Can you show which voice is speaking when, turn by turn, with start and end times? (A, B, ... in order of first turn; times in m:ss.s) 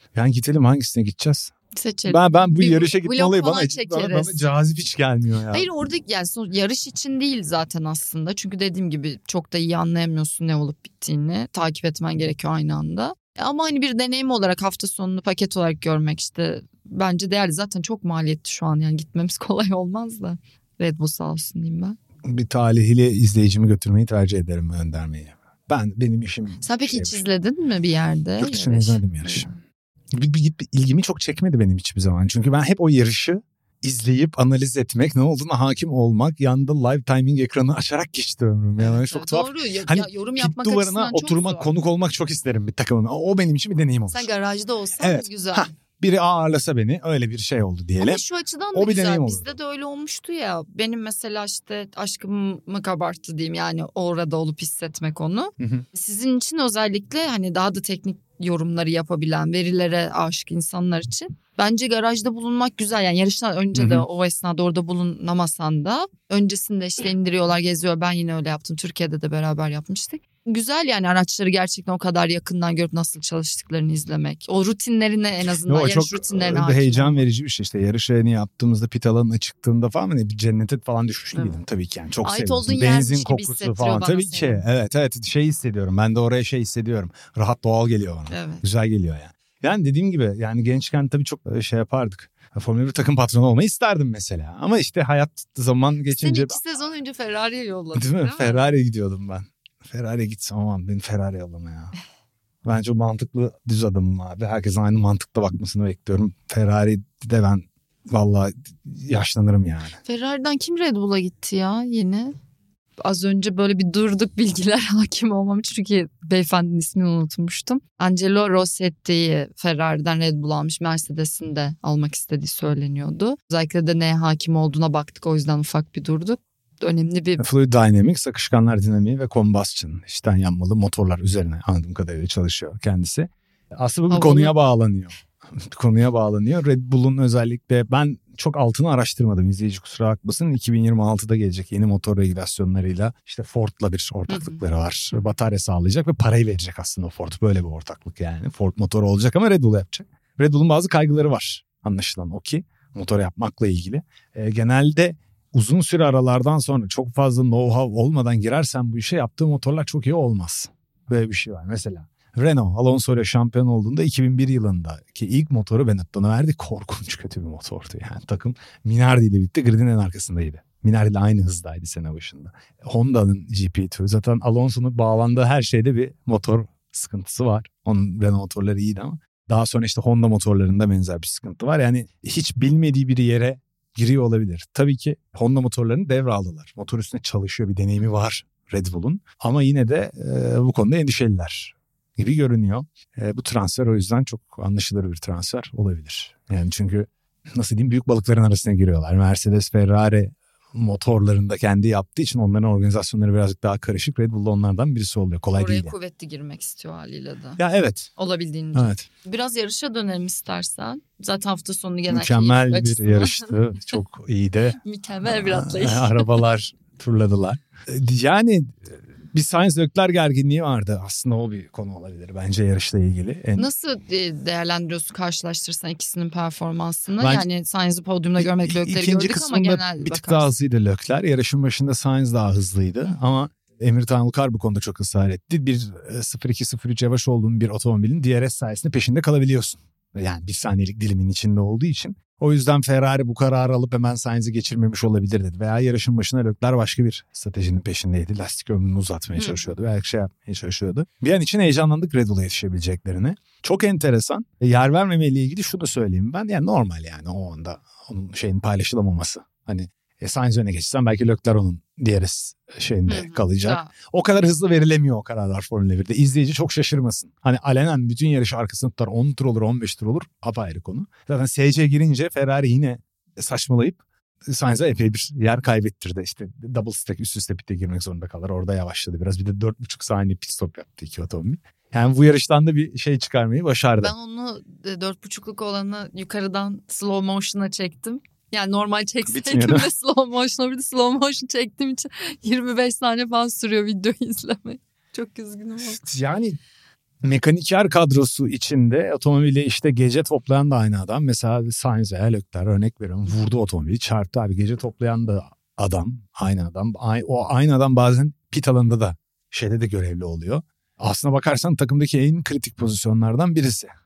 0:00.1-0:01.5 A
0:01.7-0:04.5 B
0:02.1-0:05.7 A
0:05.5-0:22.0 B
0:22.2-0:27.2 A
0:26.6-0:29.5 B
0:28.4-0:29.5 A
0:30.1-0:44.3 A
0:38.8-0:41.7 B
0:44.1-0:45.7 B
0:45.0-0:48.2 A
0:48.0-1:17.2 B
0:48.7-0:49.5 A
0:55.6-0:55.8 A
1:03.7-1:04.0 A
1:15.7-1:36.6 A
1:22.2-1:24.6 B
1:28.3-1:28.6 B
1:36.1-1:38.7 B
1:37.9-1:41.9 A
1:42.6-1:50.0 A
1:50.0-1:52.3 B
1:53.0-2:07.4 B
2:07.4-3:25.9 A
2:14.1-2:14.5 B
2:24.3-2:24.6 B
3:25.5-3:27.6 B
3:27.6-3:28.1 A
3:28.2-3:33.5 B
3:28.7-3:29.0 A
3:32.1-3:43.7 A
3:34.8-3:36.4 B
3:43.6-3:50.5 B
3:47.2-3:47.5 A
3:48.4-4:44.1 A
4:09.4-4:09.7 B
4:23.1-4:23.9 B
4:44.0-4:56.0 B
4:49.3-4:49.9 A
4:56.0-4:56.6 A
4:57.2-5:13.9 A